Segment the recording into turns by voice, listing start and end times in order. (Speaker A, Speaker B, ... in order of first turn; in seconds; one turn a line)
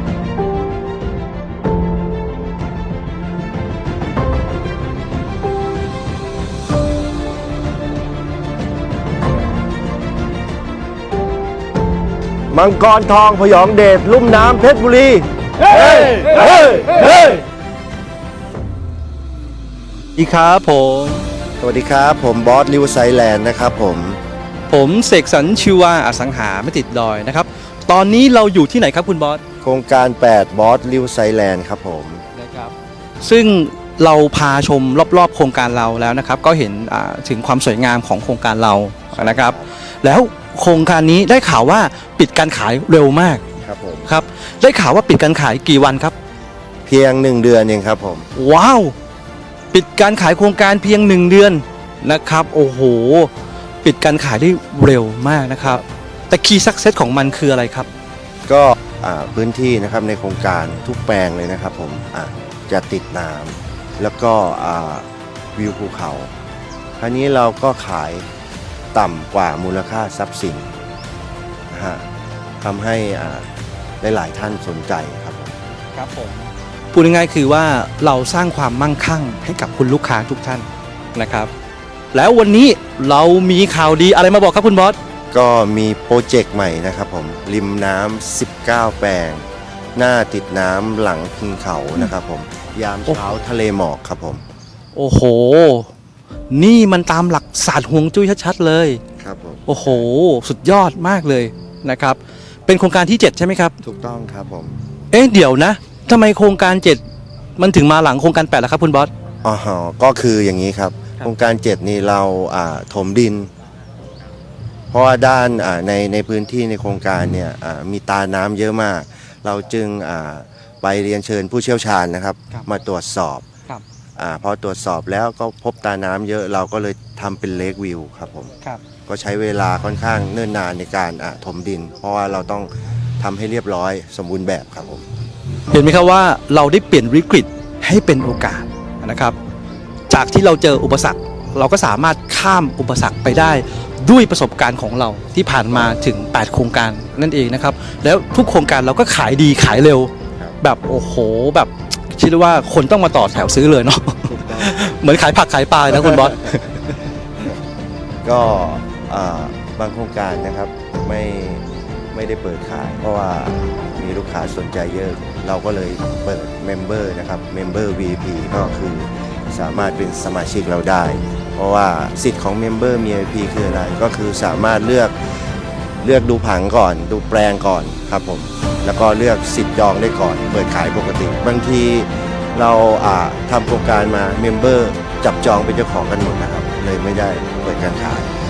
Speaker A: 12.5-17.4
Speaker B: 20.2-21.3
Speaker A: 21.6-24.2
Speaker B: 24.7-29.4
Speaker A: 29.6-32.2
Speaker B: 32.3-43.4
Speaker A: 39.1-39.7
Speaker A: 43.6-44.1
Speaker B: 44.1-46.1
Speaker A: 46.9-48.3
Speaker B: 48.4-49.0
Speaker B: 49.7-53.3
Speaker B: 53.8-57.9
Speaker A: 58.5-66.3
Speaker A: 67.0-68.3
Speaker A: 68.9-70.7
Speaker A: 71.7-72.1
Speaker A: 72.6-73.5
Speaker A: 74.0-75.5
Speaker B: 75.9-81.5
Speaker B: 82.1-85.0
Speaker A: 85.3-89.5
Speaker A: 90.0-94.4
Speaker B: 95.0-95.9
Speaker B: 96.5-99.0
Speaker A: 99.2-100.1
Speaker B: 99.7-103.8
Speaker A: 103.8-104.8
Speaker B: 105.1-107.0
Speaker B: 107.6-109.1
Speaker A: 109.5-113.5
Speaker A: 114.9-123.5
Speaker A: 124.2-128.5
Speaker A: 129.1-135.0
Speaker B: 135.7-139.4
Speaker B: 140.1-156.8
Speaker A: 154.3-154.8
Speaker A: 158.2-175.1
Speaker A: 176.0-188.3